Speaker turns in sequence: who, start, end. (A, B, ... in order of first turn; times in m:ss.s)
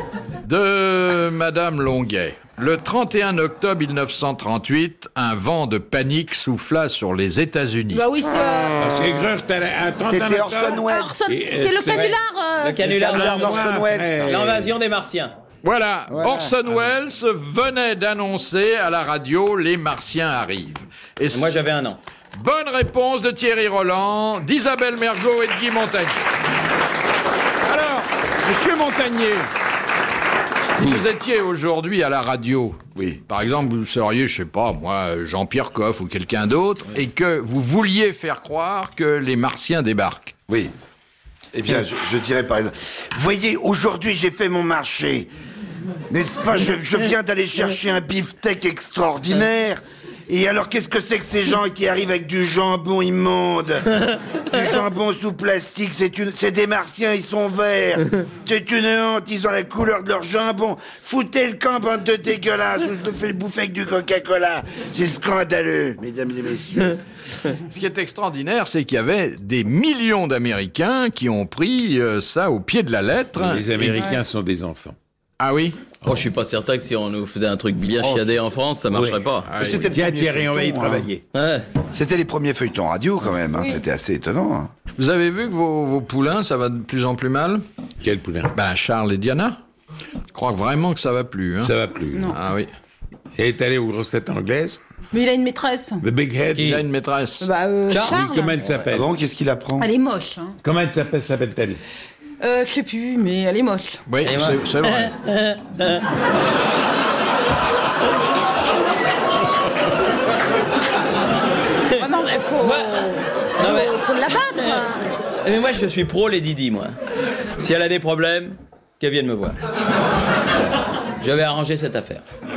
0:00.4-0:08.0 A
0:07.9-0:08.8 B
0:08.8-0:12.2 C
0:10.0-0:11.1 D
0:10.8-0:12.9 B
0:11.9-0:13.7 E
0:12.8-0:14.7 C
0:12.9-0:14.7 D
0:14.2-0:15.4 E
0:15.6-0:21.6 A
0:16.1-0:16.5 D
0:21.3-0:22.0 E
0:22.3-0:26.2 A
0:27.6-0:29.5 A
0:30.7-0:40.3 A
0:32.9-0:33.2 D
0:40.5-0:40.7 D
0:41.5-0:45.3 D
0:46.1-0:53.9 D
0:54.4-1:07.0 D
1:07.7-1:14.0 A
1:13.3-1:15.0 C
1:15.4-1:15.8 A
1:16.0-1:19.5 E
1:18.9-1:21.2 C
1:19.4-1:19.8 A
1:19.6-1:21.1 D
1:21.3-1:21.6 E
1:21.9-1:24.7 D
1:25.0-1:27.6 A
1:28.0-1:28.5 C
1:28.5-1:29.6 A
1:30.3-1:31.7 A
1:31.6-1:32.4 C
1:32.3-1:32.7 A
1:33.3-1:34.8 C
1:35.1-1:36.0 B
1:36.0-1:36.8 C
1:36.5-1:36.8 E
1:36.6-1:37.5 A
1:37.4-1:38.6 B
1:37.9-1:38.9 E
1:38.0-1:39.1 C
1:38.9-1:39.9 D
1:39.8-1:40.6 B
1:40.6-1:41.8 C
1:42.4-1:44.0 B
1:44.1-1:45.1 A
1:44.2-1:46.0 E
1:51.9-1:55.0 B
1:52.6-1:53.0 E
1:53.6-1:54.0 E
1:54.6-1:54.8 E
1:55.4-1:57.0 E
1:57.6-1:59.6 E
2:01.2-2:02.2 E